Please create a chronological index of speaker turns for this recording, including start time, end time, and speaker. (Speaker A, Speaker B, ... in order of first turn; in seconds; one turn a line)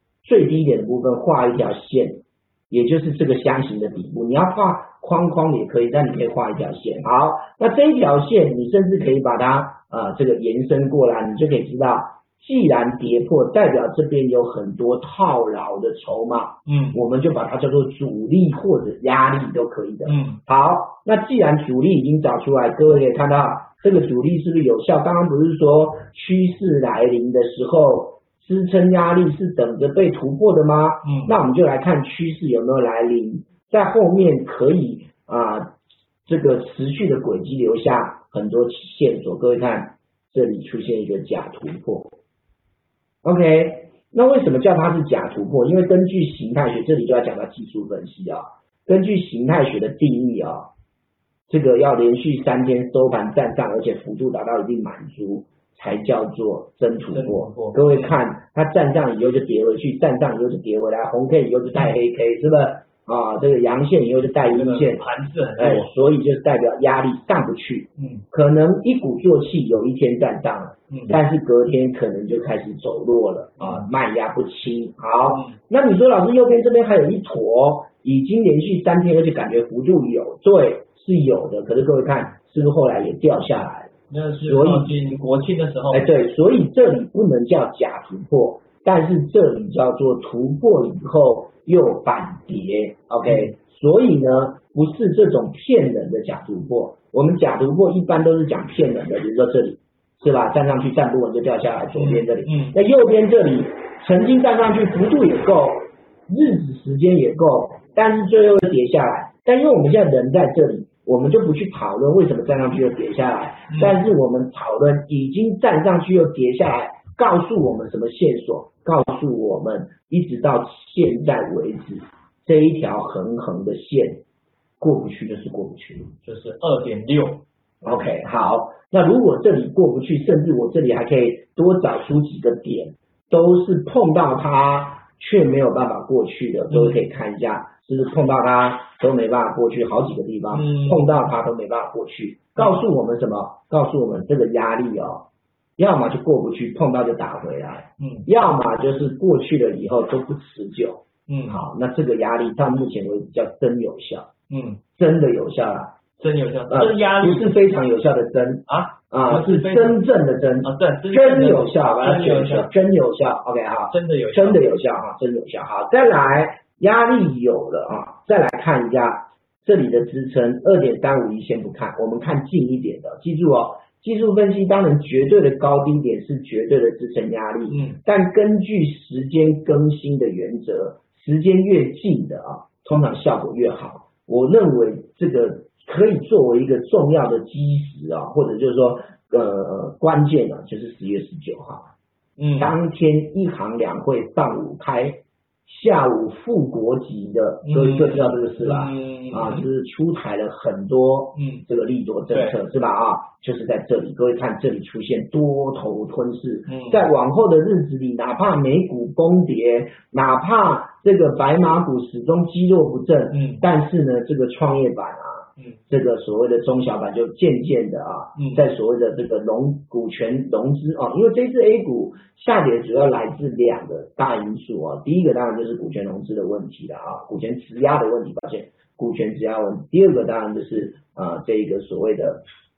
Speaker A: 0.2-35.8
Speaker B: 16.6-17.0
Speaker B: 20.1-20.4
Speaker B: 31.0-31.4
Speaker A: 36.3-42.1
Speaker A: 43.2-50.7
Speaker A: 51.5-85.0
Speaker B: 57.1-58.2
Speaker B: 64.3-65.9
Speaker B: 68.0-68.2
Speaker B: 70.9-71.2
Speaker B: 73.6-73.9
Speaker B: 75.3-75.6
Speaker B: 84.1-86.1
Speaker A: 85.9-124.2
Speaker B: 93.3-93.5
Speaker B: 102.0-102.8
Speaker B: 113.7-114.0
Speaker A: 124.8-126.2
Speaker B: 126.2-127.4
Speaker A: 127.8-154.3
Speaker B: 136.7-137.0
Speaker B: 140.5-141.2
Speaker B: 142.6-142.8
Speaker B: 148.0-148.3
Speaker B: 151.3-151.7
Speaker B: 154.5-154.8
Speaker A: 155.0-156.0
Speaker B: 156.2-157.6
Speaker A: 156.7-191.9
Speaker B: 158.7-160.0
Speaker B: 160.6-162.7
Speaker B: 163.9-164.7
Speaker B: 177.7-178.0
Speaker B: 192.4-192.8
Speaker A: 192.6-232.5
Speaker B: 197.6-199.7
Speaker B: 201.3-201.7
Speaker B: 202.3-202.6
Speaker B: 206.7-207.1
Speaker B: 213.3-213.7
Speaker B: 218.3-218.7